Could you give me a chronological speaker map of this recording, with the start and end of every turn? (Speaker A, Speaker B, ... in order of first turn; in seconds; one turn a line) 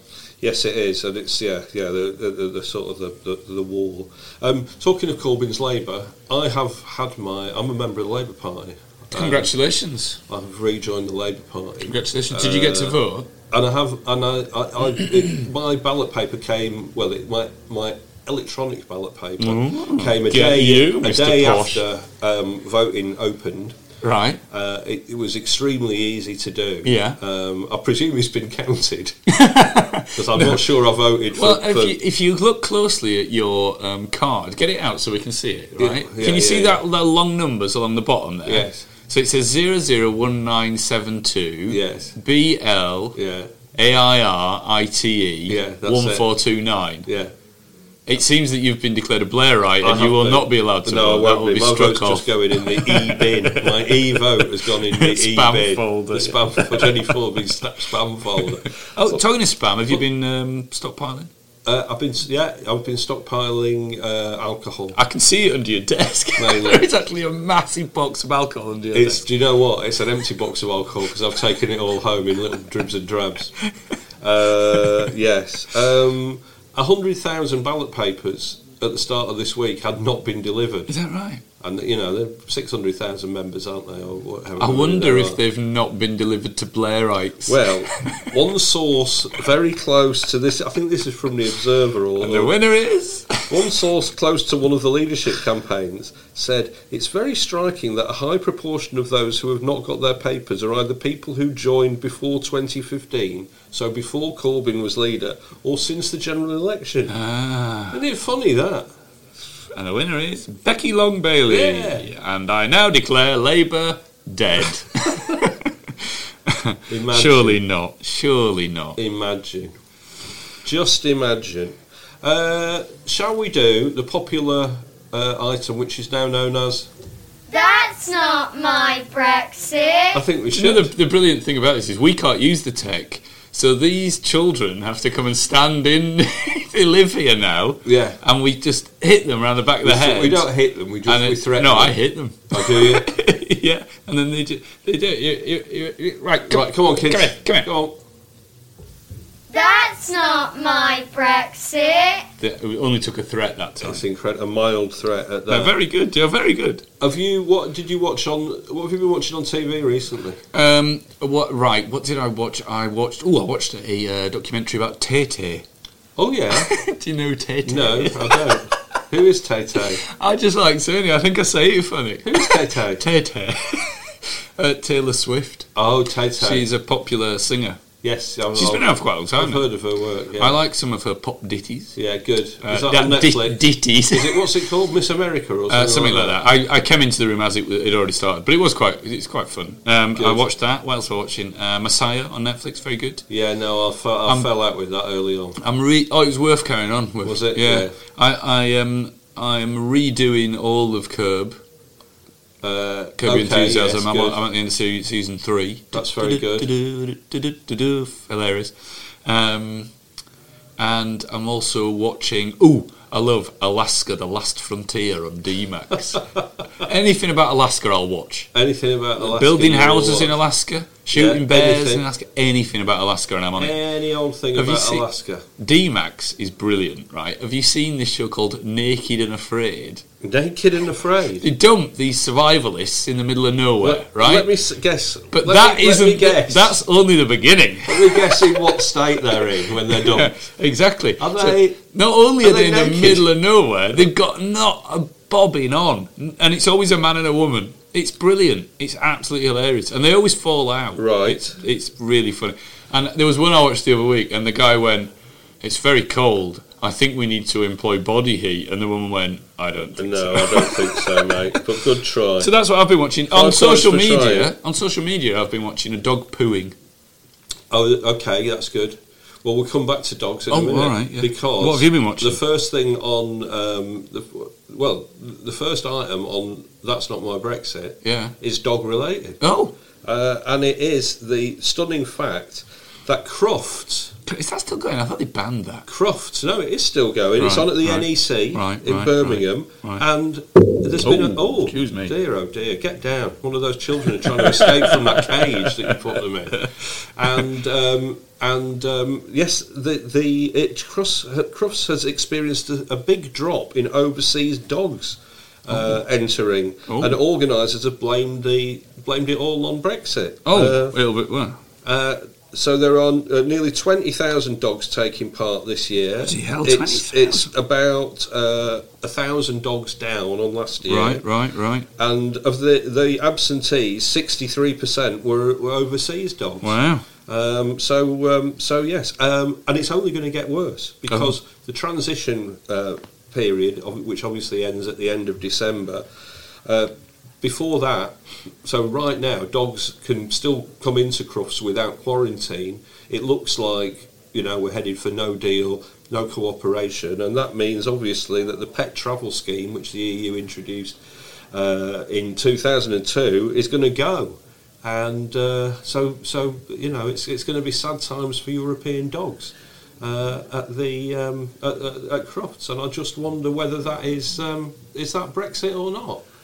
Speaker A: 0.4-9.5
Speaker B: 9.1-10.2
Speaker A: 10.3-23.8
Speaker B: 11.8-13.3
Speaker B: 19.4-21.8
Speaker B: 24.0-24.4
Speaker A: 24.5-29.1
Speaker B: 26.8-27.2
Speaker B: 29.3-30.6
Speaker A: 30.1-32.0
Speaker B: 31.3-43.2
Speaker A: 35.8-36.8
Speaker A: 38.5-38.9
Speaker A: 41.7-42.1
Speaker A: 43.1-43.5
Speaker B: 43.7-47.1
Speaker A: 45.5-46.3
Speaker A: 47.1-47.3
Speaker B: 48.1-57.2
Speaker A: 49.8-59.2
Speaker B: 58.4-61.3
Speaker A: 61.6-65.0
Speaker B: 64.9-69.2
Speaker A: 66.4-66.9
Speaker A: 68.9-73.6
Speaker A: 74.2-80.9
Speaker B: 80.9-81.4
Speaker A: 81.6-85.4
Speaker B: 84.6-88.2
Speaker A: 87.5-92.5
Speaker B: 92.2-93.8
Speaker A: 93.5-107.2
Speaker B: 107.1-108.0
Speaker A: 107.9-108.9
Speaker B: 109.7-119.0
Speaker A: 111.5-112.1
Speaker A: 116.9-117.6
Speaker A: 119.0-119.7
Speaker A: 120.6-126.9
Speaker C: 127.5-130.2
Speaker A: 130.1-130.9
Speaker B: 130.5-140.5
Speaker A: 137.8-138.2
Speaker A: 139.8-142.0
Speaker B: 141.1-147.7
Speaker A: 142.5-143.1
Speaker A: 146.5-147.9
Speaker C: 149.5-152.2
Speaker B: 152.4-154.0
Speaker A: 153.8-155.7
Speaker B: 155.5-156.8
Speaker A: 157.0-160.4
Speaker B: 160.5-165.6
Speaker A: 166.2-166.8
Speaker B: 166.5-168.7
Speaker A: 167.6-170.0
Speaker B: 169.8-175.7
Speaker A: 172.2-173.0
Speaker A: 175.7-176.7
Speaker B: 176.4-177.8
Speaker A: 178.0-180.6
Speaker B: 178.6-179.7
Speaker B: 180.4-181.9
Speaker A: 181.9-186.4
Speaker B: 182.6-184.6
Speaker B: 185.7-193.2
Speaker A: 190.2-190.4
Speaker A: 193.3-195.6
Speaker B: 195.6-201.6
Speaker A: 197.2-197.9
Speaker A: 202.6-204.4
Speaker B: 203.2-208.7
Speaker A: 205.9-206.7
Speaker B: 209.2-209.9
Speaker B: 210.8-216.2
Speaker B: 216.8-218.5
Speaker A: 218.5-220.4
Speaker B: 219.2-223.8
Speaker A: 221.1-222.0
Speaker A: 223.6-225.4
Speaker B: 224.6-225.1
Speaker B: 225.6-230.0
Speaker A: 230.2-231.4
Speaker B: 231.4-234.5
Speaker A: 233.8-236.8
Speaker B: 235.3-238.8
Speaker A: 237.9-240.3
Speaker B: 239.8-261.6
Speaker A: 241.2-241.8
Speaker A: 242.4-243.3
Speaker A: 250.9-251.6
Speaker A: 260.0-262.5
Speaker B: 262.4-266.7
Speaker A: 263.3-264.5
Speaker A: 267.7-279.4
Speaker B: 270.5-272.4
Speaker B: 278.0-278.4
Speaker B: 279.4-279.7
Speaker A: 280.0-284.1
Speaker B: 284.3-285.9
Speaker A: 285.9-310.9
Speaker B: 287.4-290.0
Speaker B: 291.0-292.1
Speaker B: 294.2-296.6
Speaker B: 305.7-306.0
Speaker B: 306.9-307.2
Speaker B: 310.4-311.6
Speaker A: 311.9-321.2
Speaker B: 316.2-317.5
Speaker B: 320.9-321.9
Speaker A: 321.9-336.0
Speaker B: 326.6-327.1
Speaker A: 336.6-350.9
Speaker A: 351.5-366.2